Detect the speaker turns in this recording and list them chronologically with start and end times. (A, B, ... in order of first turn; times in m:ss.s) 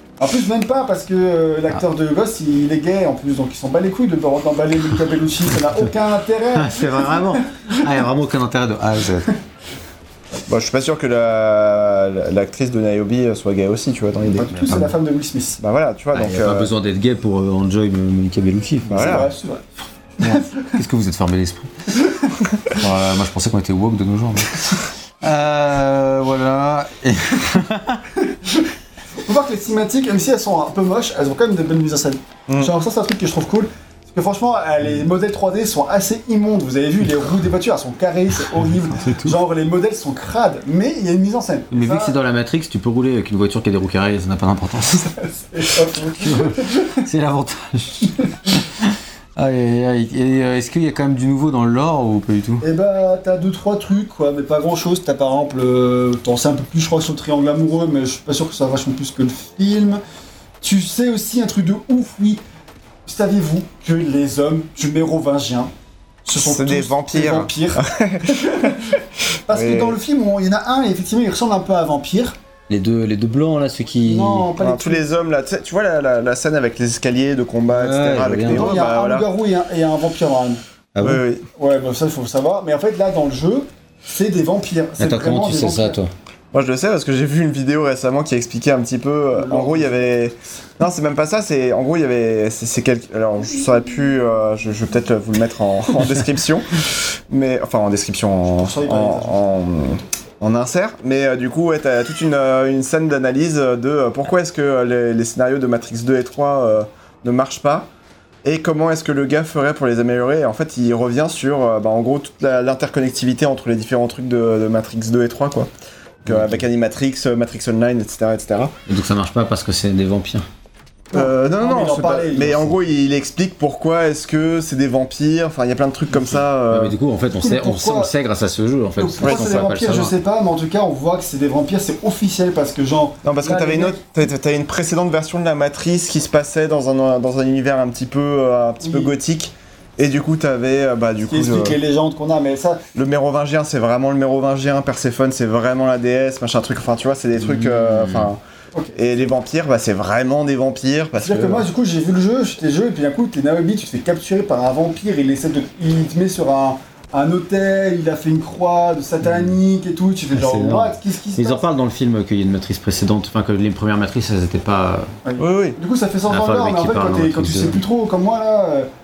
0:00.2-0:07.8 A
0:06.6-0:09.3 B
0:10.5-0:14.6 C
0:14.3-0:15.6 A
0:14.5-0:14.9 B
0:15.6-0:16.7 C
0:16.1-0:19.3 B
0:18.9-0:19.3 C
0:18.9-0:19.6 A
0:20.2-0:20.8 A
0:20.2-0:21.9 B
0:22.0-0:22.3 A
0:22.6-0:28.0 B
0:29.2-0:42.1 A
0:38.5-0:39.4 B
0:41.7-0:45.1 B
0:45.0-0:47.0 A
0:46.2-0:52.6 B
0:52.6-1:00.0 A
1:00.6-1:02.4 A
1:03.0-1:05.7 A
1:06.2-1:12.4 A
1:06.4-1:08.8 C
1:09.5-1:10.0 C
1:12.7-1:14.5 B
1:14.0-1:15.0 A
1:14.6-1:19.3 C
1:17.7-1:18.7 B
1:18.5-1:20.6 A
1:20.9-1:21.2 B
1:21.0-1:21.4 C
1:21.6-1:26.0 A
1:25.0-1:26.1 B
1:26.5-1:47.9 C
1:29.3-1:30.1 A
1:38.6-1:39.4 A
1:48.4-1:55.7 C
1:56.2-1:58.7 C
1:56.3-1:56.6 B
1:58.9-2:00.4 B
2:01.1-2:07.0 C
2:01.1-2:02.8 A
2:06.7-2:10.1 B
2:07.4-2:08.1 A
2:09.0-2:14.0 A
2:09.2-2:09.5 C
2:13.2-2:21.8 C
2:18.8-2:19.1 A
2:21.3-2:22.8 A
2:22.9-2:28.4 C
2:27.5-2:28.3 B
2:28.9-2:31.7 C
2:31.2-2:41.6 A
2:40.3-2:45.1 B
2:45.2-2:48.9 A
2:45.4-2:45.8 C
2:46.3-2:47.8 B